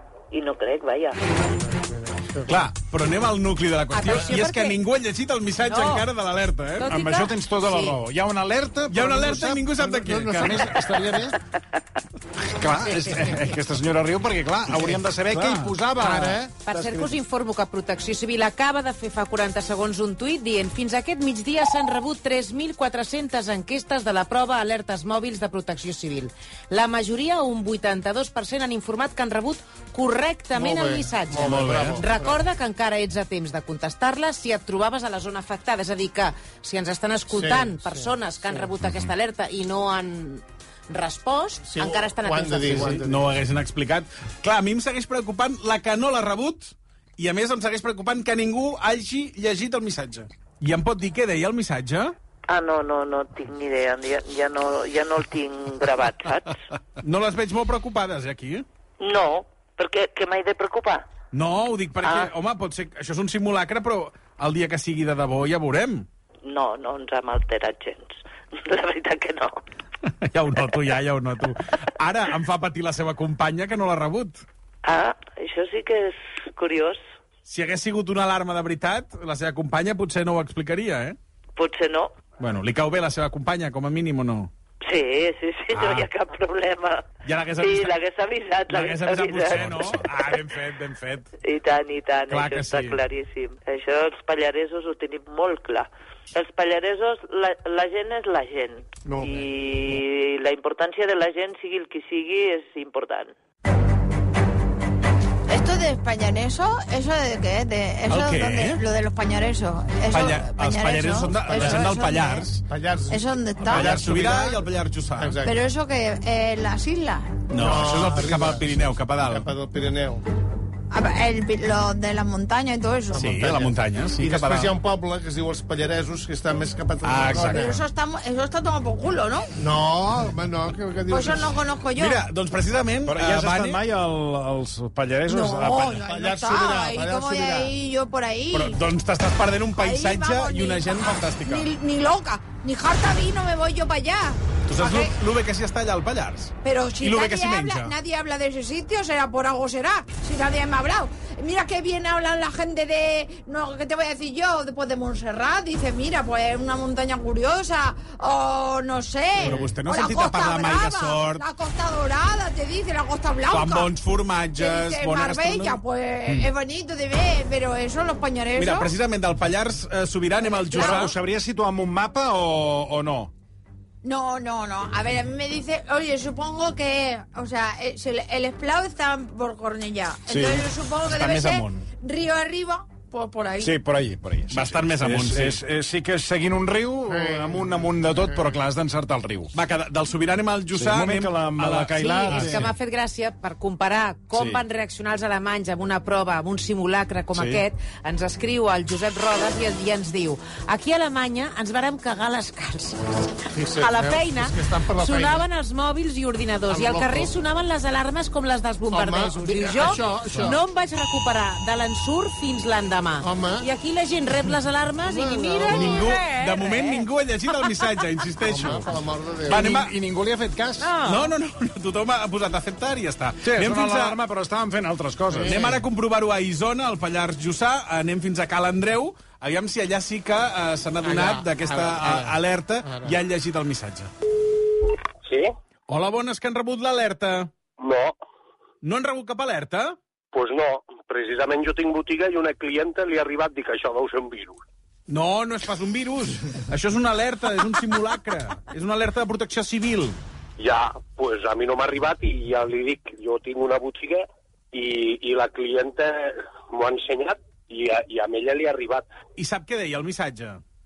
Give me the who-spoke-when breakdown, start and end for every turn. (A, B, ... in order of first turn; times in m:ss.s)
0:00.3-0:01.2 A
0:01.5-0:02.5 B
0:02.5-0:06.9 C
0:03.9-0:04.8 D
0:05.7-0:06.0 D
0:06.8-0:08.0 D
0:06.8-0:11.4 E
0:08.9-0:10.7 C
0:09.9-0:10.6 B
0:12.4-0:17.2 E
0:15.3-0:15.7 C
0:16.0-0:16.4 B
0:16.6-0:43.0 D
0:30.5-0:32.4 B
0:31.5-0:31.9 E
0:37.3-0:38.7 B
0:41.6-0:43.4 B
0:42.9-0:52.1 C
0:52.5-0:56.6 A
0:57.0-0:58.6 C
0:59.0-1:01.1 A
1:01.3-1:06.0 C
1:02.0-1:02.3 A
1:06.4-1:09.6 A
1:10.2-1:14.4 C
1:14.8-1:17.0 A
1:17.5-1:21.2 C
1:21.6-1:22.1 A
1:22.4-1:24.5 C
1:24.8-1:30.3 A
1:25.7-1:26.1 C
1:27.2-1:28.0 C
1:28.7-1:31.3 C
1:29.5-1:29.9 E
1:31.4-1:43.3 A
1:32.3-1:33.0 C
1:39.0-1:39.4 B
1:45.5-1:52.5 F
1:48.1-1:48.8 C
1:50.1-1:52.6 C
1:51.5-1:51.9 B
1:52.7-1:54.6 B
1:53.1-1:54.0 F
1:53.6-1:55.4 C
1:55.2-1:55.6 B
1:55.4-1:57.4 F
1:57.5-1:59.5 C
1:57.5-2:00.2 B
2:00.9-2:03.3 F
2:03.1-2:07.8 B
2:03.1-2:04.7 C
2:07.0-2:07.8 C
2:07.5-2:09.5 F
2:09.6-2:11.6 B
2:11.1-2:12.2 F
2:12.0-2:13.8 C
2:13.0-2:16.0 E
2:15.3-2:18.8 F
2:16.0-2:17.7 B
2:18.5-2:21.7 C
2:19.8-2:25.1 F
2:24.7-2:27.9 C
2:26.6-2:43.9 F
2:39.4-2:41.4 C
2:43.5-2:45.8 C
2:44.6-2:48.9 F
2:48.6-2:51.1 C
2:50.6-2:51.1 F
2:50.7-2:53.3 E
2:54.0-3:03.7 F
3:00.3-3:00.7 E
3:01.1-3:01.8 C
3:03.6-3:09.5 E
3:04.5-3:05.6 C
3:07.1-3:08.3 B
3:09.5-3:12.6 C
3:10.7-3:12.7 E
3:12.0-3:23.0 D
3:14.3-3:14.6 E
3:17.3-3:17.6 E
3:23.5-3:25.4 B
3:23.8-3:37.0 D
3:26.7-3:27.3 B
3:28.9-3:30.6 B
3:33.2-3:33.7 B
3:35.0-3:36.1 B
3:35.7-3:38.9 C
3:38.4-3:39.8 B
3:39.5-3:39.9 C
3:39.5-3:41.0 E
3:40.8-3:41.3 D
3:41.0-3:44.2 C
3:43.4-3:45.8 E
3:45.3-3:45.8 B
3:45.4-3:54.1 C
3:51.0-3:53.2 B
3:55.2-3:55.5 G
3:55.9-3:57.5 C
3:57.8-3:58.2 G
3:58.8-4:00.0 C
4:00.3-4:04.6 G
4:05.1-4:10.2 C
4:10.6-4:19.1 G
4:19.4-4:20.6 C